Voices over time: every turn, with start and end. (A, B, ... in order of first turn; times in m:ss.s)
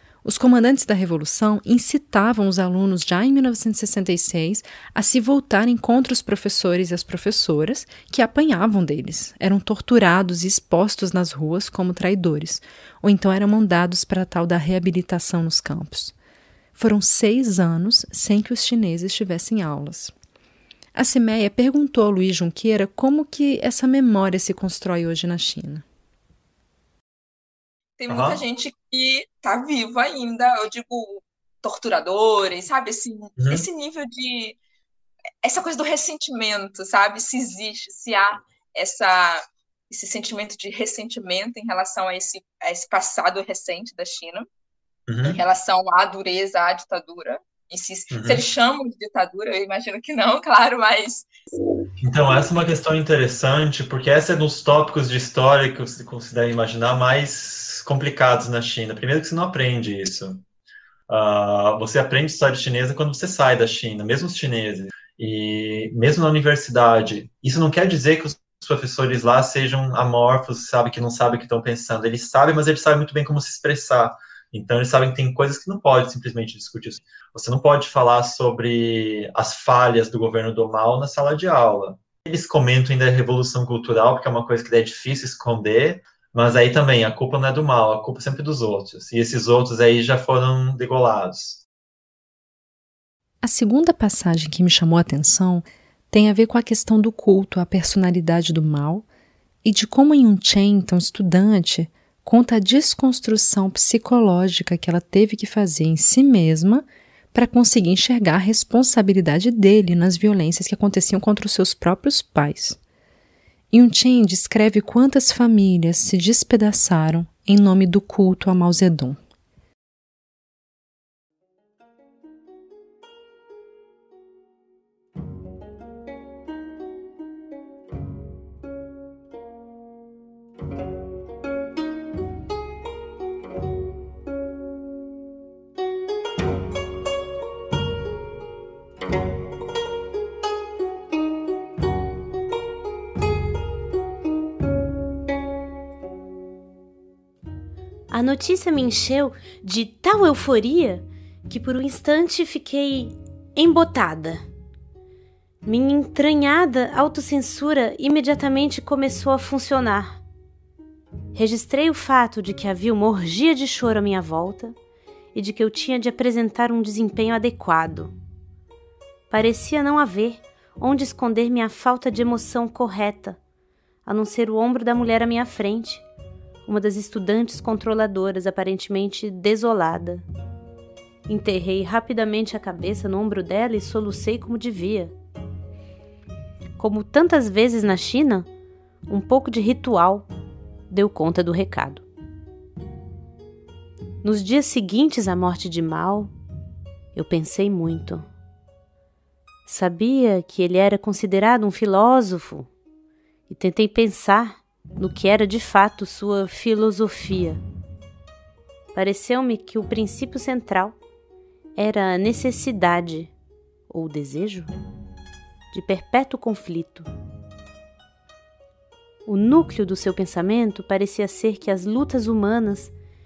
0:00.2-0:16.1 A
0:16.8-0:20.1 A
0:20.9-0:25.8 A
0:28.0-0:34.6 B
0:28.1-0:28.4 C
0:33.4-0:33.6 C
0:35.4-0:44.5 B
0:45.1-0:45.4 C
0:45.2-0:51.2 B
0:48.1-0:48.4 C
0:52.0-1:00.4 C
1:01.1-1:31.6 C
1:33.4-1:39.0 A
1:39.6-1:52.8 A
1:53.7-1:59.2 A
2:28.1-2:34.4 D
2:35.6-2:40.2 D
2:41.3-2:44.8 D
2:45.3-2:48.1 D
2:49.3-2:53.4 D
2:54.1-2:56.0 D
2:56.6-3:00.2 D
3:01.3-3:05.1 D
3:06.8-3:08.5 D
3:09.1-3:10.3 D
3:10.9-3:12.0 D
3:14.2-3:16.3 D
3:17.1-3:18.3 D
3:19.6-3:22.7 D
3:23.5-3:27.6 D
3:28.9-3:31.0 D
3:31.8-3:33.3 D
3:33.9-3:34.7 D
3:35.7-3:37.1 D
3:39.2-3:42.9 D